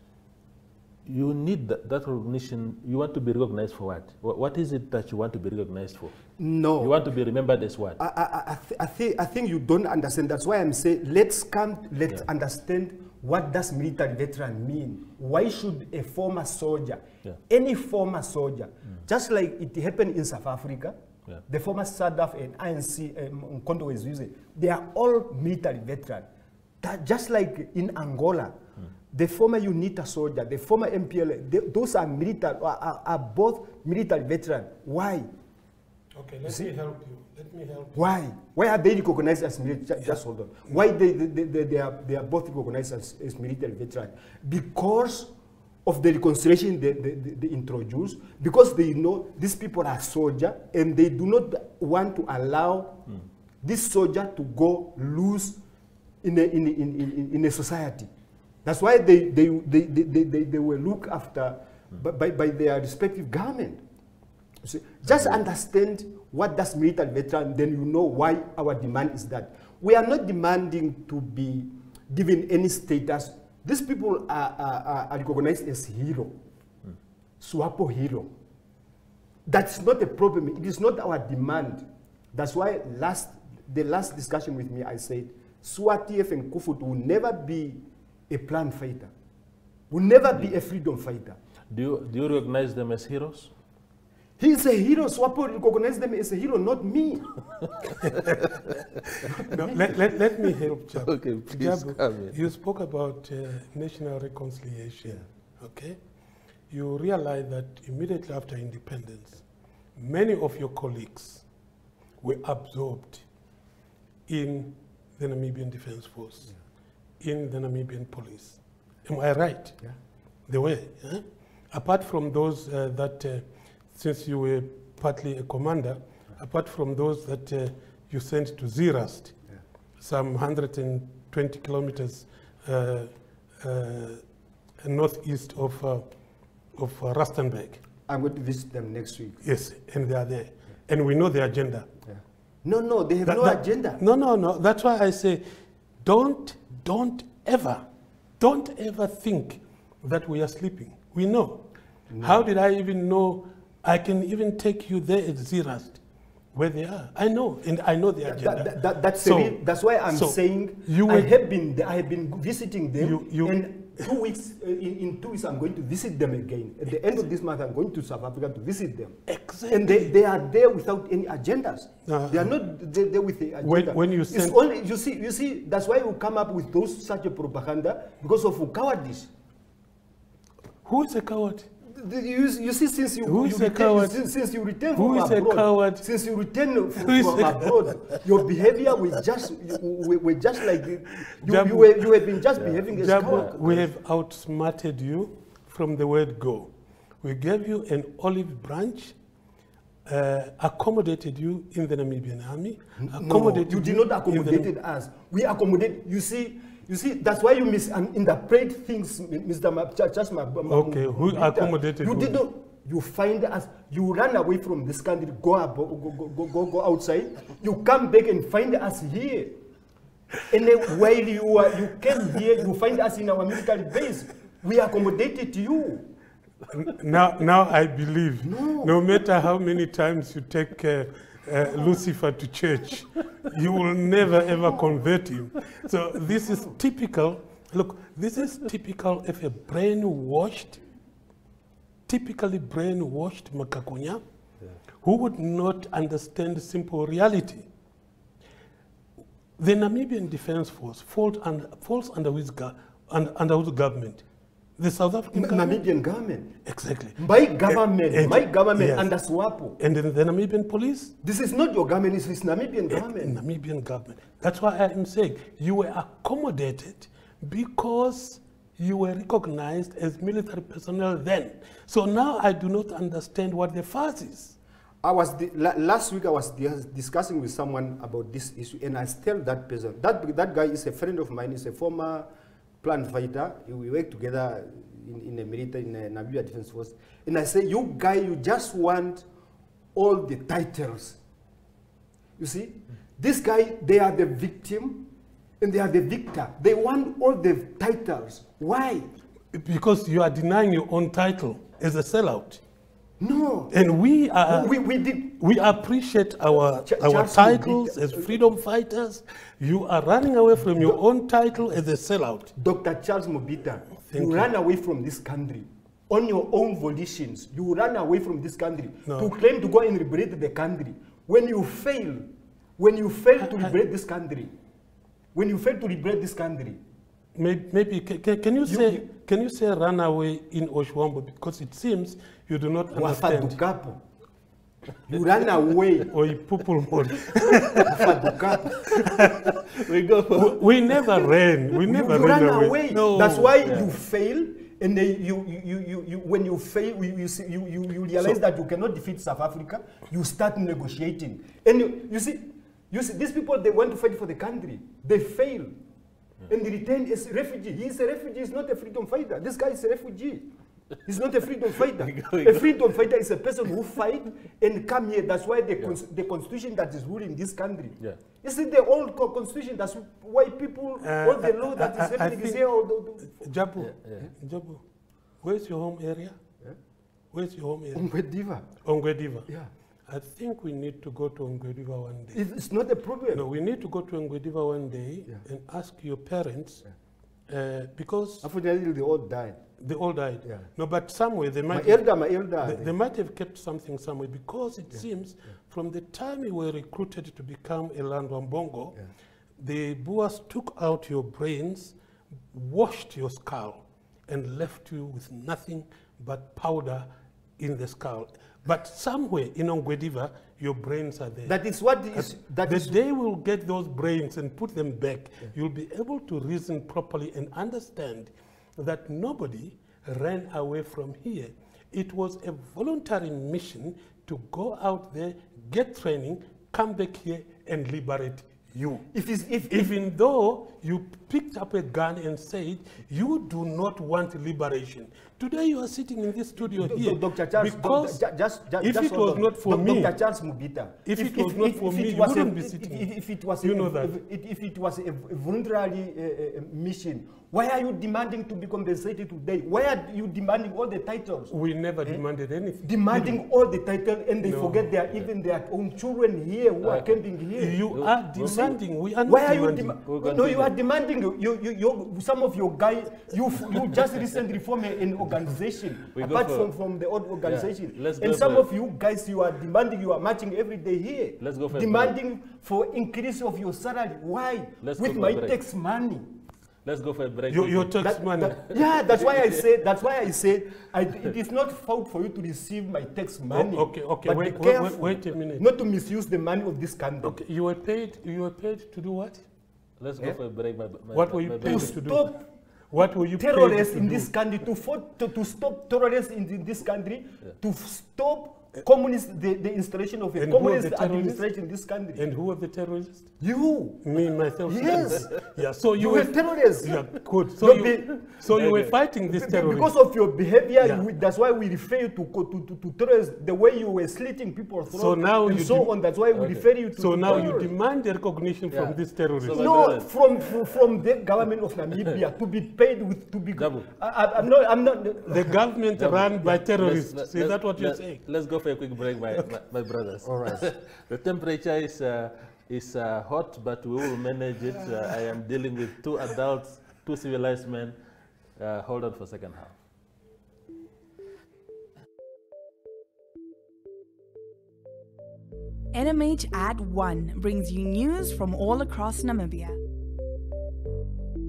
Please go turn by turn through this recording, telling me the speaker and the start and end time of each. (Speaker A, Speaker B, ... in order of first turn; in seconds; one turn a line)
Speaker A: 1.1-6.2
Speaker B: 6.4-7.0
Speaker A: 6.8-8.0
Speaker B: 8.0-21.0
Speaker B: 21.5-26.3
Speaker B: 26.8-28.6
Speaker B: 29.1-35.3
Speaker C: 36.1-38.1
Speaker B: 36.5-36.7
Speaker B: 38.0-45.3
Speaker B: 45.9-53.0
Speaker B: 53.6-55.6
Speaker B: 56.2-58.1
Speaker B: 58.6-63.8
Speaker B: 64.6-76.3
Speaker B: 77.4-78.3
Speaker B: 79.5-89.1
Speaker B: 89.9-91.4
Speaker A: 91.7-93.5
Speaker B: 94.4-97.3
Speaker C: 98.0-98.4
Speaker C: 99.2-106.0
Speaker B: 99.4-99.9
Speaker A: 101.0-102.4
Speaker C: 106.7-109.5
Speaker C: 110.0-111.5
Speaker C: 112.2-113.3
Speaker C: 114.3-116.5
Speaker C: 117.2-119.8
Speaker C: 120.5-129.3
Speaker C: 130.0-134.3
Speaker C: 134.8-136.1
Speaker C: 136.8-137.8
Speaker B: 138.1-139.4
Speaker C: 139.4-141.9
Speaker B: 142.1-144.0
Speaker C: 143.2-145.5
Speaker C: 146.0-147.9
Speaker C: 148.4-156.0
Speaker B: 152.1-152.5
Speaker C: 156.5-161.3
Speaker B: 158.3-179.3
Speaker C: 163.0-163.6
Speaker C: 169.3-170.2
Speaker C: 172.1-172.5
Speaker C: 173.6-174.6
Speaker C: 180.8-181.7
Speaker B: 181.8-193.9
Speaker C: 183.2-184.3
Speaker C: 184.9-186.1
Speaker C: 187.0-188.2
Speaker C: 191.4-192.1
Speaker A: 192.6-193.6
Speaker C: 192.9-199.2
Speaker C: 200.1-204.7
Speaker B: 203.0-219.6
Speaker C: 210.7-212.4
Speaker B: 220.5-226.1
Speaker C: 226.7-240.8
Speaker B: 228.4-229.2
Speaker B: 236.5-236.8
Speaker C: 242.1-244.2
Speaker C: 245.0-247.7
Speaker C: 249.6-254.2
Speaker C: 254.8-255.8
Speaker B: 255.3-256.6
Speaker C: 256.6-259.1
Speaker B: 257.2-259.8
Speaker C: 259.8-261.1
Speaker B: 261.2-263.4
Speaker C: 262.9-274.6
Speaker B: 275.0-282.3
Speaker B: 282.8-289.2
Speaker B: 289.9-291.2
Speaker B: 292.4-299.1
Speaker C: 299.5-302.6
Speaker B: 303.2-303.7
Speaker C: 303.7-312.5
Speaker B: 304.5-305.4
Speaker B: 306.9-308.4
Speaker B: 312.6-322.3
Speaker C: 314.0-314.5
Speaker C: 319.1-319.3
Speaker B: 322.8-324.5
Speaker C: 323.4-323.7
Speaker B: 325.3-326.8
Speaker C: 327.4-333.6
Speaker B: 328.7-329.1
Speaker B: 332.9-334.0
Speaker B: 335.1-336.1
Speaker C: 336.1-338.0
Speaker B: 337.8-338.8
Speaker A: 338.8-340.7
Speaker C: 339.0-339.6
Speaker C: 340.3-343.6
Speaker B: 341.9-355.8
Speaker A: 343.6-343.9
Speaker B: 356.5-360.5
Speaker B: 361.1-373.5
Speaker A: 362.0-362.7
Speaker C: 371.0-372.7
Speaker C: 373.2-374.8
Speaker A: 373.8-374.3
Speaker C: 375.4-376.4
Speaker C: 377.3-378.1
Speaker B: 377.9-378.7
Speaker C: 378.8-379.5
Speaker C: 380.1-382.4
Speaker B: 382.3-383.4
Speaker C: 383.3-386.9
Speaker C: 387.5-388.5
Speaker B: 388.4-389.7
Speaker C: 389.8-392.0
Speaker B: 391.7-392.9
Speaker C: 392.6-399.0
Speaker C: 399.6-401.9
Speaker C: 402.5-407.1
Speaker C: 407.6-411.6
Speaker B: 411.5-413.0
Speaker C: 412.1-429.1
Speaker B: 429.1-429.9
Speaker C: 429.7-438.2
Speaker B: 436.8-452.2
Speaker C: 438.8-440.1
Speaker C: 441.1-443.1
Speaker C: 443.6-444.2
Speaker C: 451.5-453.4
Speaker B: 452.8-457.8
Speaker C: 454.4-454.9
Speaker A: 456.8-457.2
Speaker C: 457.6-460.0
Speaker A: 457.9-458.8
Speaker B: 459.3-476.4
Speaker A: 460.1-460.8
Speaker A: 466.1-466.7
Speaker A: 467.4-468.7
Speaker A: 471.4-472.2
Speaker A: 474.8-475.6
Speaker A: 476.8-477.9
Speaker C: 477.5-478.6
Speaker B: 478.0-487.4
Speaker A: 478.7-479.6
Speaker C: 483.5-485.6
Speaker C: 487.2-489.5
Speaker A: 490.0-492.0
Speaker C: 491.1-492.3
Speaker B: 491.6-492.4
Speaker C: 492.9-494.3
Speaker B: 493.4-502.3
Speaker C: 500.4-501.5
Speaker C: 502.2-503.3
Speaker B: 503.4-504.1
Speaker C: 504.0-509.9
Speaker B: 504.7-505.3
Speaker B: 506.0-508.3
Speaker A: 508.5-508.9
Speaker B: 509.3-517.7
Speaker C: 510.8-511.1
Speaker C: 514.9-516.0
Speaker A: 516.3-516.7
Speaker C: 517.0-519.7
Speaker A: 517.3-517.5
Speaker A: 518.7-520.7
Speaker B: 519.5-525.5
Speaker A: 523.6-523.9
Speaker C: 525.3-528.2
Speaker A: 526.0-538.0
Speaker B: 530.2-530.7
Speaker A: 538.6-539.8
Speaker D: 545.9-549.8